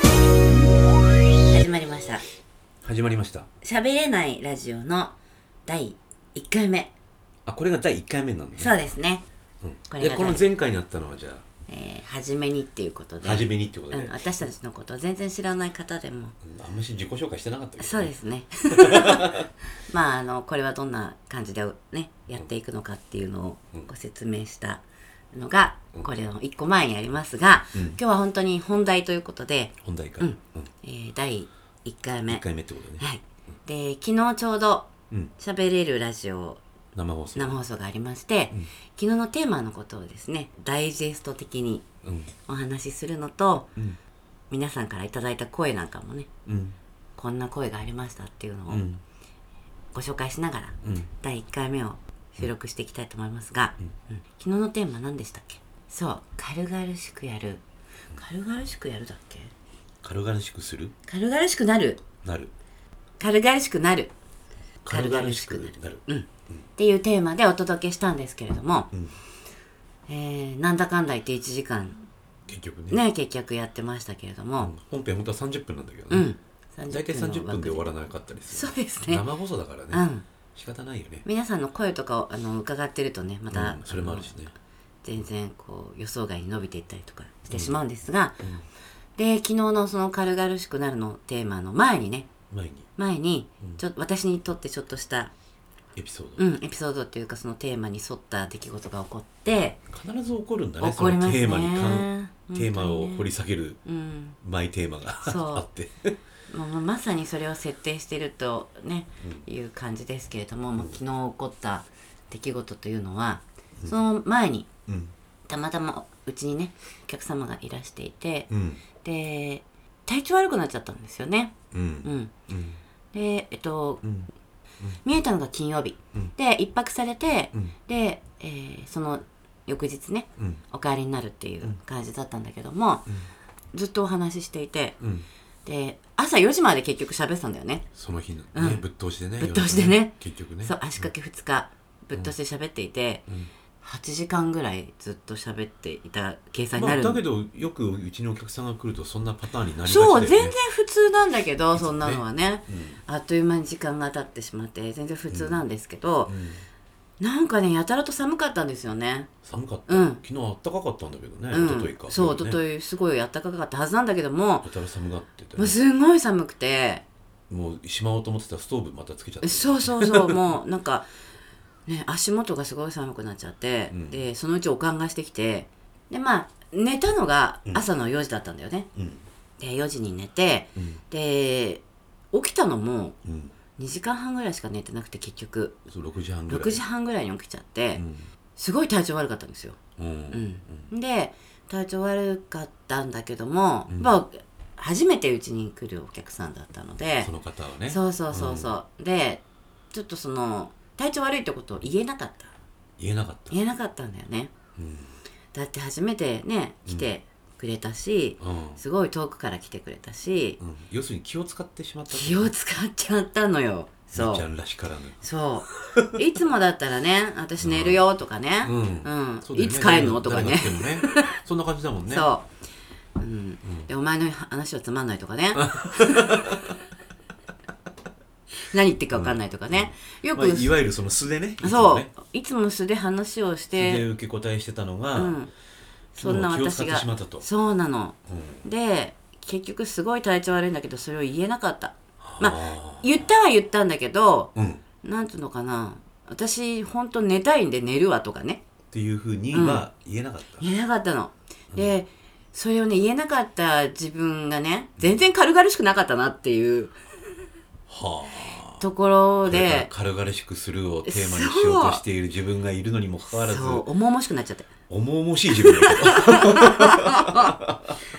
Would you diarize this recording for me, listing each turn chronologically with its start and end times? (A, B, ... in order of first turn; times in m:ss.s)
0:01.5-0:02.2 A
0:02.8-0:03.5 B
0:03.6-0:06.9 A
0:07.4-0:08.7 B
0:08.6-0:09.2 A
0:09.6-0:11.4 B
0:09.9-0:10.4 A
0:11.7-0:16.3 A
0:13.2-0:14.2 B
0:16.4-0:18.1 B
0:17.8-0:24.8 A
0:18.7-0:19.5 B
0:25.3-0:32.4 A
0:27.7-0:28.0 B
0:29.8-0:30.7 B
0:32.3-0:33.0 B
0:33.0-0:36.6 A
0:36.9-0:37.6 B
0:37.4-0:41.8 A
0:42.0-0:42.3 B
0:42.5-0:43.7 A
0:44.5-0:46.3 A
0:46.4-0:46.8 B
0:47.2-0:48.8 A
0:48.7-0:49.0 B
0:49.9-0:57.6 A
0:58.1-0:59.5 A
1:00.0-1:00.9 B
1:01.0-1:02.0 A
1:02.2-1:02.5 B
1:03.2-1:04.1 A
1:04.8-1:06.6 B
1:04.9-1:08.9 A
1:10.1-1:12.0 A
1:12.5-1:13.0 B
1:12.9-1:14.7 A
1:14.6-1:16.3 B
1:16.1-1:19.2 A
1:16.9-1:21.2 B
1:19.9-1:20.2 A
1:21.2-1:24.4 A
1:23.5-1:24.5 B
1:25.0-1:28.4 A
1:27.5-1:27.8 B
1:29.2-1:32.3 A
1:32.5-1:32.9 B
1:33.0-1:35.3 A
1:36.0-1:36.4 B
1:36.4-1:39.8 A
1:39.9-1:43.8 B
1:40.8-1:43.3 A
1:43.8-1:44.4 A
1:44.4-1:46.1 B
1:45.2-1:45.6 A
1:46.5-1:54.7 A
1:54.9-1:55.1 B
1:55.5-2:02.3 A
1:58.5-1:58.8 B
2:01.7-2:02.8 B
2:03.1-2:04.0 A
2:04.0-2:04.3 B
2:05.0-2:13.0 A
2:13.7-2:15.0 A
2:15.0-2:15.3 B
2:15.6-2:17.9 A
2:17.9-2:21.1 B
2:18.5-2:18.8 A
2:19.4-2:23.2 A
2:23.8-2:27.2 A
2:26.8-2:30.6 B
2:29.8-2:36.3 A
2:31.7-2:33.0 B
2:35.3-2:35.6 B
2:36.2-2:36.6 B
2:37.2-2:39.3 A
2:39.4-2:42.6 B
2:39.9-2:40.2 A
2:41.5-2:44.7 A
2:44.6-2:45.8 B
2:45.6-2:47.0 A
2:47.5-2:50.4 B
2:49.4-2:51.1 A
2:51.9-2:58.9 A
2:53.9-2:54.2 B
2:59.0-2:59.2 B
2:59.6-3:03.2 A
3:00.8-3:01.0 B
3:03.2-3:03.5 B
3:03.8-3:05.8 A
3:05.9-3:06.8 B
3:06.5-3:08.0 A
3:07.9-3:08.3 B
3:08.6-3:09.8 A
3:10.0-3:10.9 B
3:10.3-3:17.3 A
3:13.9-3:14.1 B
3:17.2-3:18.7 B
3:17.9-3:22.5 A
3:23.0-3:23.6 B
3:23.5-3:24.5 A
3:24.8-3:25.2 B
3:25.5-3:30.6 A
3:28.4-3:28.8 B
3:30.6-3:32.5 B
3:32.1-3:34.5 A
3:34.1-3:35.2 B
3:35.2-3:41.4 A
3:35.9-3:36.2 B
3:37.6-3:38.1 B
3:38.6-3:42.3 B
3:42.1-3:42.5 A
3:43.2-3:46.6 A
3:45.6-3:46.7 B
3:48.6-3:50.8 A
3:49.1-3:52.1 B
3:51.6-3:54.0 A
3:53.7-3:55.4 B
3:55.1-3:55.5 A
3:56.1-3:57.5 B
3:56.2-4:04.5 A
3:58.3-3:58.6 B
4:02.2-4:03.3 B
4:04.5-4:04.8 B
4:05.0-4:08.6 A
4:08.9-4:10.7 B
4:09.5-4:09.8 A
4:10.6-4:17.0 A
4:11.7-4:12.0 B
4:15.0-4:15.2 B
4:17.9-4:18.8 B
4:18.8-4:19.9 A
4:19.5-4:23.8 B
4:21.0-4:22.0 A
4:23.3-4:24.7 A
4:24.9-4:28.0 B
4:25.5-4:27.6 A